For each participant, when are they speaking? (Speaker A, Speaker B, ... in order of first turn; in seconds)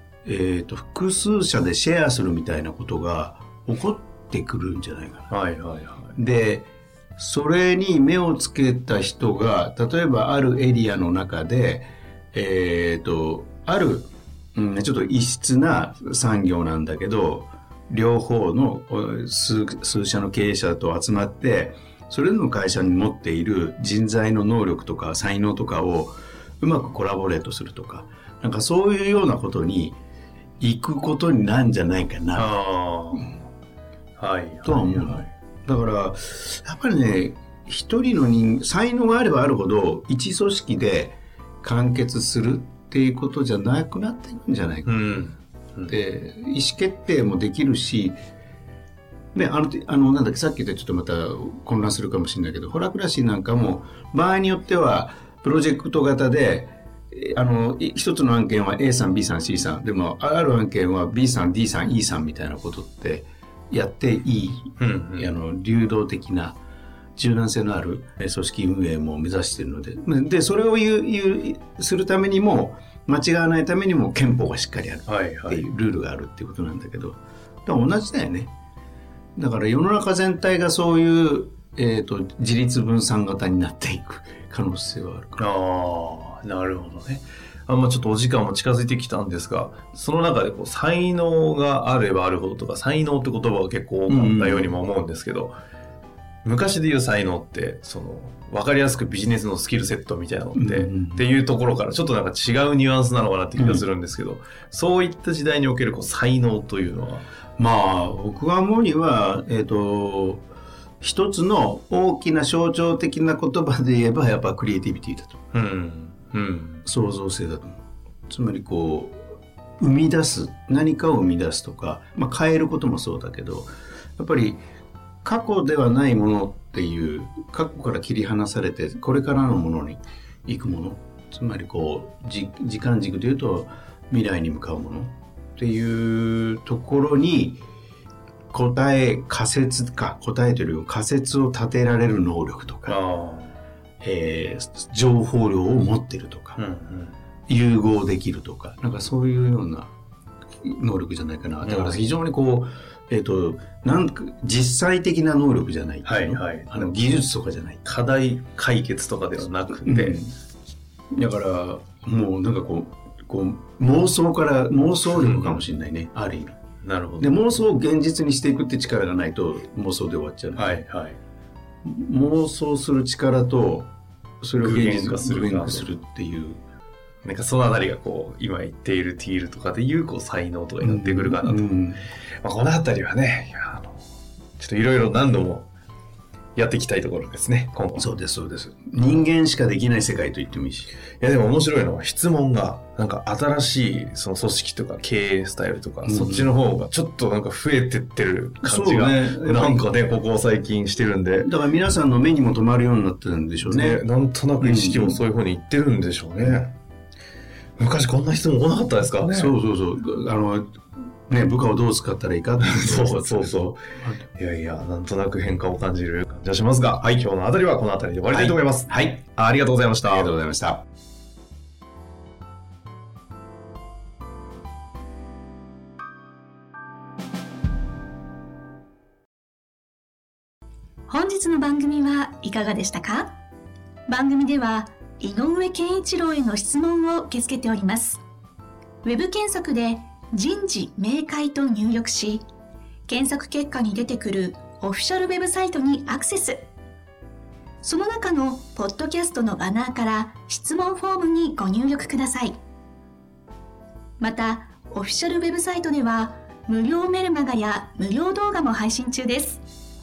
Speaker A: 0.2-5.3, 6.2-30.0, 30.6-32.6, 34.6-45.0, 45.9-48.2, 49.3-66.6, 67.2-78.5, 79.4-85.5, 94.1-94.8, 100.6-101.3, 103.6-103.8, 107.6-110.5, 111.0-115.4, 116.8-117.8, 118.3-119.2, 119.8-124.6, 125.2-137.6, 138.5-143.0, 144.0-146.6, 147.5-149.9, 150.6-157.8, 159.9-160.3, 161.1-166.6, 167.2-170.8, 171.8-176.6, 180.8-182.0, 188.0-190.9, 196.0-196.5, 198.6-199.9, 201.3-204.0, 204.6-205.2, 209.3-214.2, 218.3-219.2, 220.0-220.8
Speaker B: 5.3-6.1, 32.4-33.4, 34.2-35.3, 44.9-45.9, 64.8-65.3, 75.1-75.6, 85.4-95.5, 96.4-107.3, 115.5-116.8, 142.9-143.5, 146.6-147.1, 151.6-152.0, 156.1-156.9, 157.8-160.2, 165.2-165.6, 166.8-167.5, 170.6-171.2, 174.6-175.9, 177.2-181.7, 182.4-184.0, 184.6-185.7, 186.6-188.0, 191.2-201.5, 203.7-206.7, 207.8-209.5, 212.6-213.8, 214.4-220.3
Speaker C: 231.1-233.3, 234.1-238.2, 239.0-242.5, 243.1-246.6, 247.8-252.6, 254.2-259.6